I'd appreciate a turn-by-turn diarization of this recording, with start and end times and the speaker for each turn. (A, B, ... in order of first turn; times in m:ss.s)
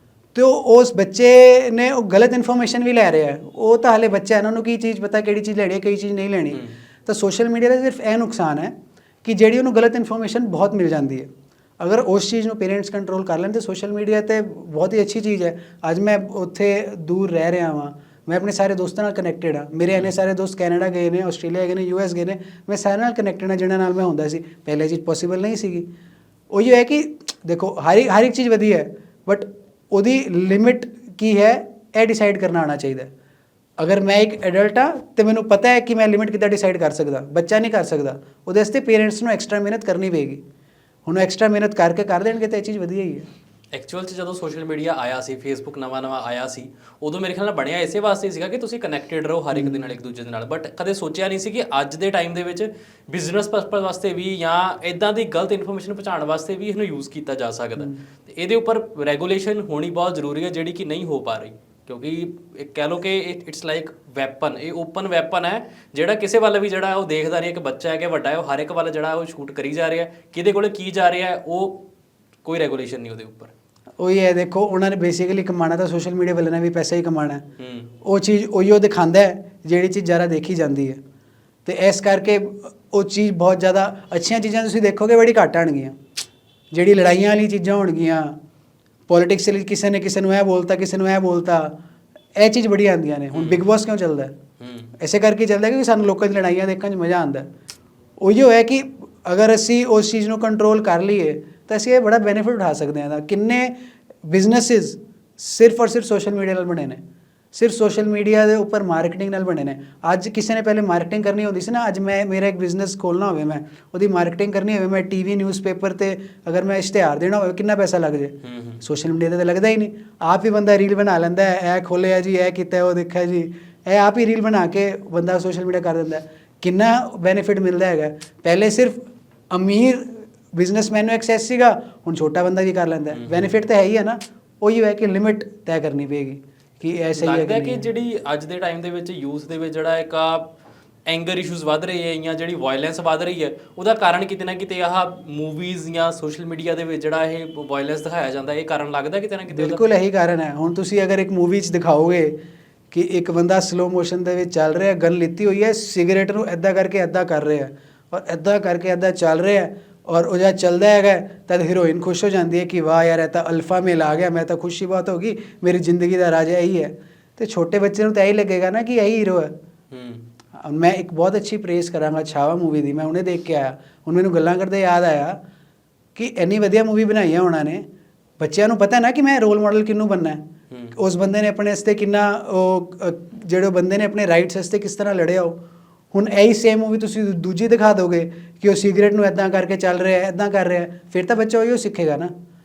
0:00.4-0:25.9 A
0:06.5-0:06.8 B
0:26.5-0:33.1 A
0:33.8-0:40.4 A
0:41.1-0:43.3 A
0:43.7-1:11.8 B
0:49.5-0:49.9 A
1:12.4-1:13.5 B
1:14.0-1:17.4 A
1:17.6-1:17.9 B
1:18.0-1:21.0 A
1:21.6-1:26.0 A
1:26.7-1:28.4 A
1:29.1-1:31.8 A
1:32.4-1:34.3 A
1:33.3-1:33.7 B
1:34.6-1:34.9 B
1:35.0-1:37.5 A
1:38.2-1:43.8 A
1:44.3-1:47.0 A
1:47.5-2:09.0 A
1:58.4-1:58.8 B
2:09.5-2:17.9 A
2:13.1-2:13.6 B
2:17.2-2:20.5 B
2:21.1-2:29.8 B
2:29.5-2:32.4 A
2:32.9-2:49.6 A
2:49.9-2:50.3 B
2:50.6-2:55.4 A
2:56.2-2:57.8 A
2:58.4-3:00.4 A
3:00.7-3:01.0 B
3:01.0-3:05.6 A
3:06.1-3:12.3 A